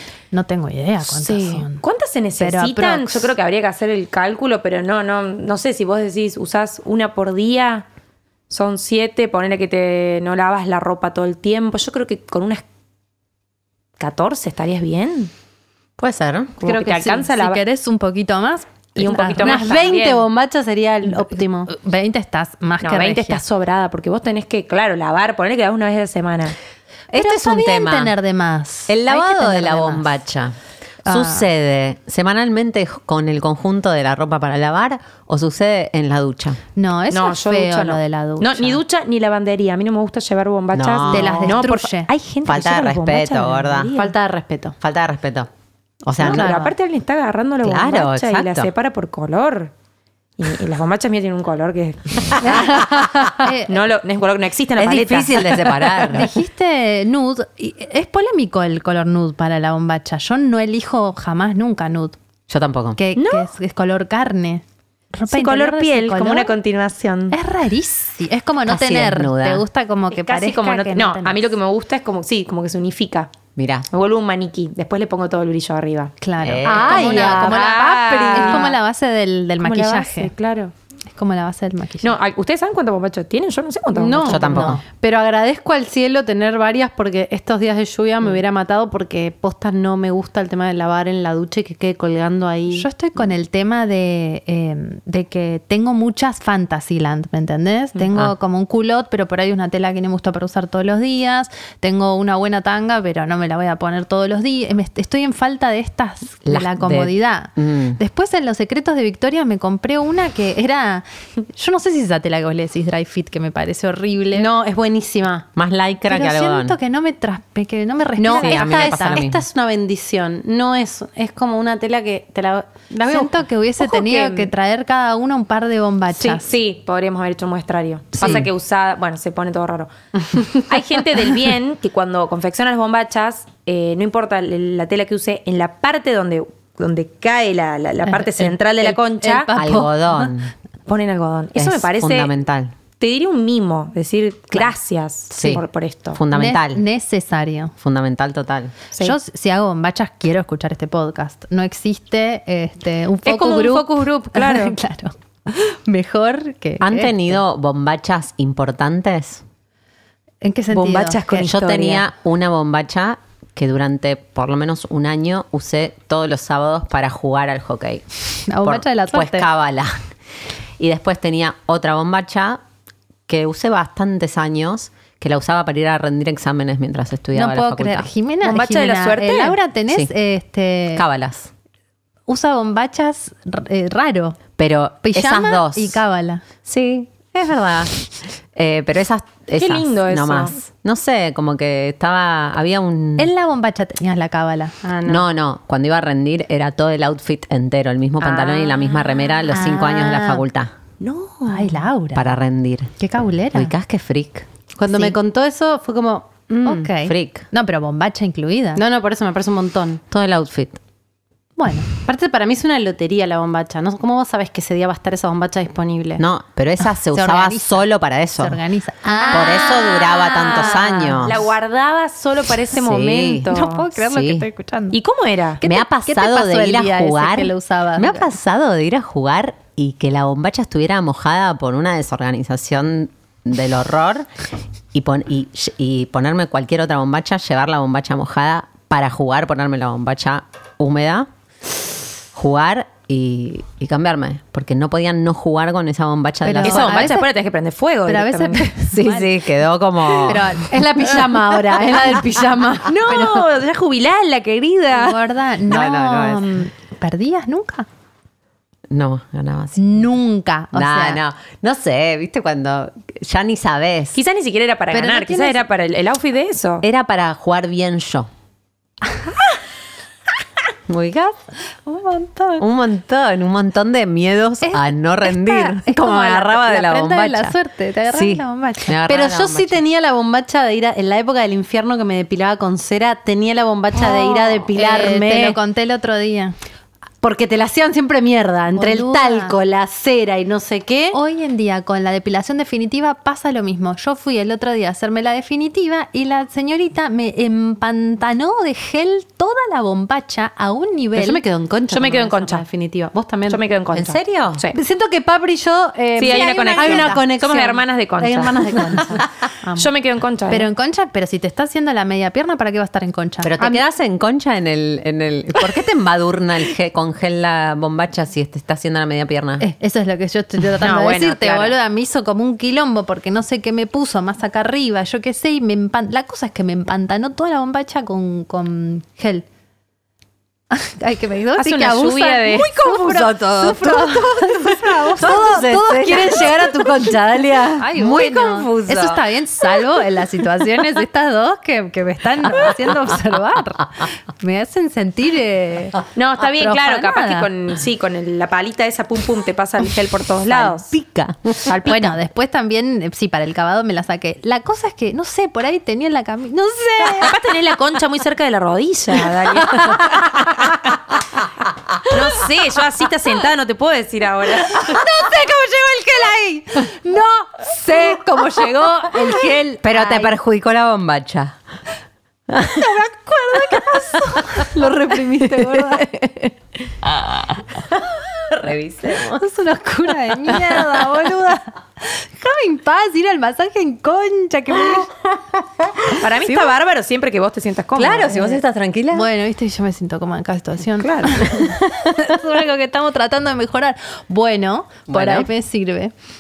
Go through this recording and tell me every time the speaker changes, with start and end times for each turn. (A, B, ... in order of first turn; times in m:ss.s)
0:00.3-0:01.8 A
0:01.0-0:07.8 B
0:02.4-0:03.3 A
0:08.5-0:12.6 B
0:14.0-0:15.3 B
0:16.0-0:16.6 C
0:16.6-0:17.6 B
0:16.6-0:19.6 A
0:19.0-0:20.3 B
0:19.4-0:21.7 D
0:21.1-0:23.4 A
0:22.8-0:26.6 B
0:27.1-0:28.1 C
0:27.1-0:30.1 A
0:28.9-0:36.6 C
0:31.1-0:31.5 A
0:36.8-0:38.8 A
0:37.1-0:44.1 B
0:40.7-0:41.6 C
0:41.1-0:42.1 A
0:42.4-0:43.9 C
0:44.0-0:44.8 D
0:44.8-0:45.5 C
0:46.0-0:46.5 C
0:46.2-0:49.7 B
0:46.2-0:46.7 A
0:47.6-0:48.7 C
0:50.4-0:56.1 B
0:52.5-0:53.1 D
0:53.4-0:53.8 A
0:54.8-0:56.3 C
0:56.1-1:02.2 A
1:02.5-1:03.0 C
1:03.0-1:06.5 A
1:03.2-1:03.5 B
1:05.3-1:07.4 B
1:07.3-1:11.5 A
1:08.7-1:09.6 C
1:10.1-1:13.3 B
1:13.6-1:13.9 C
1:13.9-1:16.2 B
1:16.2-1:20.3 A
1:16.4-1:17.0 C
1:16.6-1:18.7 D
1:16.7-1:18.8 B
1:19.6-1:20.7 B
1:21.1-1:22.2 A
1:22.0-1:24.7 B
1:24.0-1:32.9 D
1:24.2-1:24.8 C
1:32.7-1:54.5 A
1:46.5-1:48.0 C
1:54.3-1:55.5 D
1:55.6-1:56.8 C
1:56.1-1:59.2 A
1:58.2-2:03.3 D
1:58.3-1:59.4 C
2:03.1-2:06.4 A
2:03.8-2:04.5 B
2:06.1-2:19.5 B
2:18.1-2:20.3 A
2:19.6-2:20.5 C
2:20.9-2:22.3 B
2:21.6-2:22.8 C
2:23.0-2:26.2 B
2:25.3-2:26.8 C
2:26.3-2:27.7 A
2:27.8-2:28.8 C
2:29.0-2:37.2 A
2:33.2-2:34.8 B
2:36.8-2:39.4 C
2:40.4-2:41.3 A
2:40.7-2:42.0 B
2:41.3-2:50.1 C
2:48.5-2:49.5 A
2:50.8-2:52.6 C
2:53.3-2:58.1 C
2:57.4-3:01.0 A
2:58.4-2:59.6 B
3:00.9-3:01.5 C
3:02.3-3:04.4 A
3:04.6-3:06.0 C
3:05.0-3:06.4 A
3:06.6-3:08.0 C
3:08.5-3:13.3 C
3:09.6-3:10.6 B
3:13.2-3:15.0 A
3:14.8-3:15.1 D
3:15.0-3:20.7 C
3:18.2-3:19.1 B
3:19.5-3:20.4 A
3:21.0-3:21.8 B
3:21.5-3:22.4 A
3:22.1-3:22.9 C
3:23.0-3:23.7 A
3:23.5-3:24.5 C
3:24.8-3:26.6 D
3:26.6-3:27.5 C
3:26.6-3:28.8 A
3:28.8-3:30.0 D
3:30.1-3:30.8 C
3:31.6-3:31.9 A
3:32.0-3:36.2 D
3:36.2-3:38.6 C
3:37.1-3:37.8 A
3:38.4-3:41.2 A
3:39.2-3:43.9 B
3:39.3-3:41.5 C
3:42.7-3:44.5 C
3:43.5-3:45.0 A
3:44.9-3:45.6 B
3:45.6-3:48.3 A
3:45.6-3:54.3 C
3:54.9-4:01.3 C
4:02.3-4:07.2 C
4:06.4-4:07.3 A
4:06.6-4:09.0 B
4:08.1-4:09.2 A
4:08.9-4:10.6 C
4:10.3-4:10.8 A
4:10.7-4:13.0 D
4:12.8-4:15.2 B
4:13.1-4:13.5 A
4:14.9-4:17.9 A
4:15.7-4:16.5 C
4:18.9-4:20.1 C
4:19.8-4:21.2 A
4:20.7-4:24.2 C
4:24.2-4:26.8 B
4:24.9-4:25.6 A
4:26.8-4:28.3 C
4:30.9-4:31.4 C
4:31.9-4:32.6 A
4:32.6-4:37.6 C
4:34.6-4:39.0 A
4:38.1-4:39.8 C
4:39.1-4:45.6 D
4:44.0-4:46.6 A
4:47.2-4:51.2 D
4:48.8-4:49.6 A
4:51.1-5:01.4 A
5:01.2-5:03.6 D
5:01.9-5:02.6 B
5:03.5-5:04.8 B
5:03.9-5:04.6 C
5:04.7-5:09.2 D
5:06.2-5:09.0 B
5:06.3-5:07.2 C
5:09.8-5:10.7 B
5:10.5-5:13.8 A
5:13.4-5:19.7 C
5:19.6-5:29.4 A
5:20.8-5:21.8 B
5:30.7-5:35.7 A
5:31.6-5:33.3 B
5:33.0-5:36.9 C
5:35.0-5:37.9 D
5:37.8-5:47.5 A
5:37.9-5:39.2 C
5:46.2-5:50.9 B
5:50.5-5:51.8 C
5:51.7-5:52.2 B
5:51.8-5:57.4 A
5:57.2-6:00.7 B
6:02.1-6:05.0 B
6:04.7-6:10.3 A
6:09.8-6:11.6 C
6:12.5-6:12.8 C
6:12.6-6:14.7 A
6:13.8-6:14.4 C
6:14.6-6:16.5 D
6:17.1-6:19.5 C
6:19.4-6:25.1 A
6:20.5-6:20.9 C
6:25.8-6:26.2 C
6:26.2-6:28.6 B
6:28.0-6:29.3 C
6:29.1-6:36.1 A
6:31.0-6:31.4 B
6:31.4-6:31.8 C
6:35.1-6:35.5 C